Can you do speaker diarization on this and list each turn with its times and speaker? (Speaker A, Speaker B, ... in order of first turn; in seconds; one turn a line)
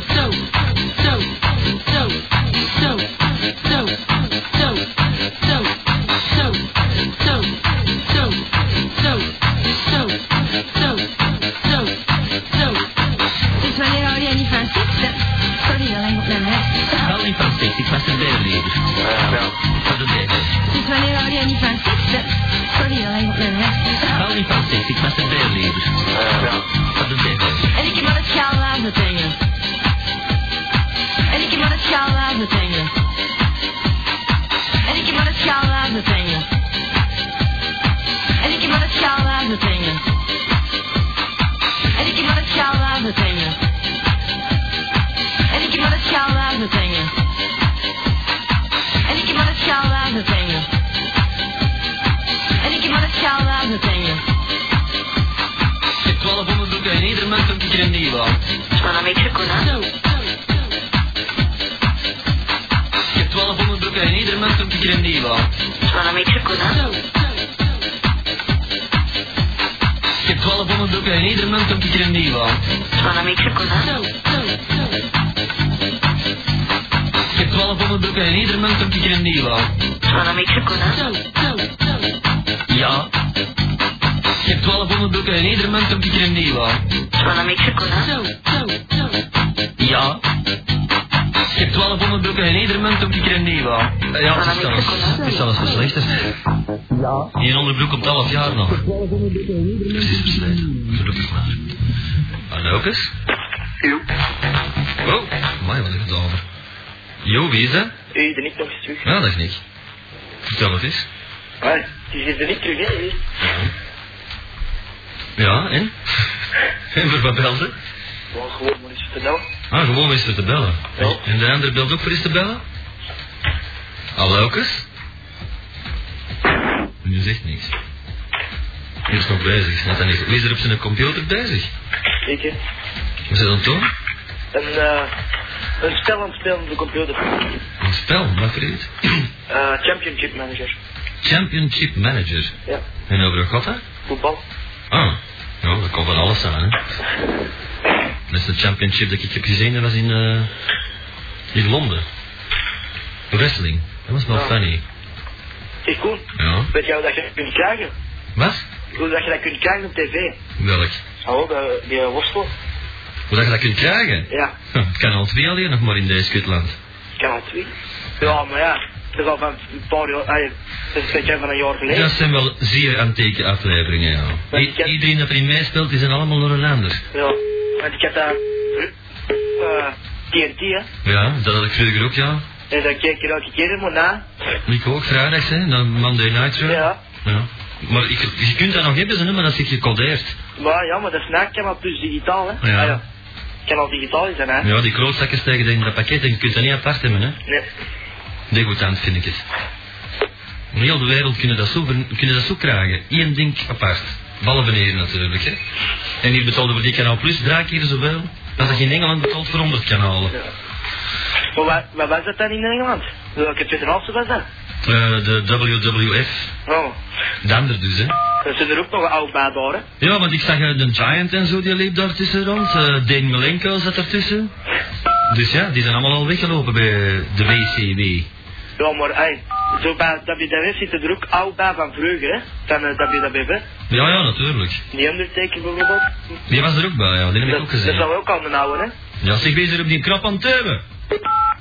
Speaker A: 13.6-17.1
Speaker B: 17.0-20.6
Speaker A: 20.7-24.2
Speaker B: 24.1-27.7
Speaker A: 27.7-29.4
Speaker A: 31.3-32.9
Speaker A: 34.9-36.5
Speaker A: 38.4-40.0
Speaker A: 42.0-43.6
Speaker A: 45.5-47.1
Speaker A: 49.1-50.7
Speaker A: 52.6-54.2
Speaker B: 56.0-58.4
Speaker C: 58.8-59.7
Speaker B: 63.1-65.5
Speaker C: 65.8-66.8
Speaker B: 70.2-72.6
Speaker C: 73.0-74.0
Speaker B: 77.3-79.7
Speaker C: 80.1-81.1
Speaker B: 82.7-83.1
Speaker B: 84.4-86.8
Speaker C: 87.2-88.2
Speaker B: 89.8-90.2
Speaker B: 91.5-96.3
Speaker C: 94.3-95.3
Speaker B: 97.4-98.9
Speaker B: 99.9-101.6
Speaker B: 102.5-103.1
Speaker B: 105.0-106.4
Speaker B: 107.2-107.9
Speaker D: 108.1-109.1
Speaker B: 109.0-109.6
Speaker B: 110.5-111.1
Speaker D: 111.6-113.2
Speaker B: 113.4-113.7
Speaker B: 115.4-116.0
Speaker B: 116.9-117.8
Speaker D: 118.3-119.4
Speaker B: 119.7-122.6
Speaker D: 121.0-121.2
Speaker B: 124.2-124.9
Speaker B: 127.0-127.8
Speaker B: 129.1-131.7
Speaker D: 132.2-132.6
Speaker B: 133.3-133.9
Speaker D: 134.5-135.1
Speaker D: 135.8-137.6
Speaker B: 137.8-139.2
Speaker D: 139.5-140.8
Speaker B: 141.2-142.5
Speaker B: 143.1-143.8
Speaker D: 144.1-144.4
Speaker B: 144.9-146.8
Speaker B: 148.3-150.5
Speaker B: 151.5-152.1
Speaker B: 153.3-154.8
Speaker D: 155.8-157.9
Speaker B: 156.4-156.7
Speaker B: 158.3-158.7
Speaker D: 158.9-160.3
Speaker B: 160.6-161.0
Speaker D: 161.2-162.5
Speaker B: 163.3-166.8
Speaker D: 164.3-164.6
Speaker D: 167.2-172.1
Speaker B: 171.9-177.0
Speaker D: 174.5-174.9
Speaker D: 177.1-178.9
Speaker D: 179.6-180.9
Speaker B: 181.0-182.4
Speaker D: 182.7-184.3
Speaker B: 184.7-190.4
Speaker D: 186.7-187.0
Speaker D: 190.6-193.0
Speaker B: 192.6-193.0
Speaker D: 193.7-194.7
Speaker B: 194.6-197.4
Speaker B: 198.5-199.4
Speaker B: 200.7-205.6
Speaker B: 206.2-210.3
Speaker D: 211.5-214.5
Speaker B: 214.8-216.5
Speaker D: 216.7-217.0
Speaker B: 217.4-218.2
Speaker D: 218.4-219.9
Speaker B: 220.0-224.5
Speaker B: 225.3-228.3
Speaker D: 228.8-233.6
Speaker B: 233.9-234.8
Speaker D: 234.9-236.2
Speaker B: 236.5-238.1
Speaker D: 237.4-238.9
Speaker B: 239.2-240.8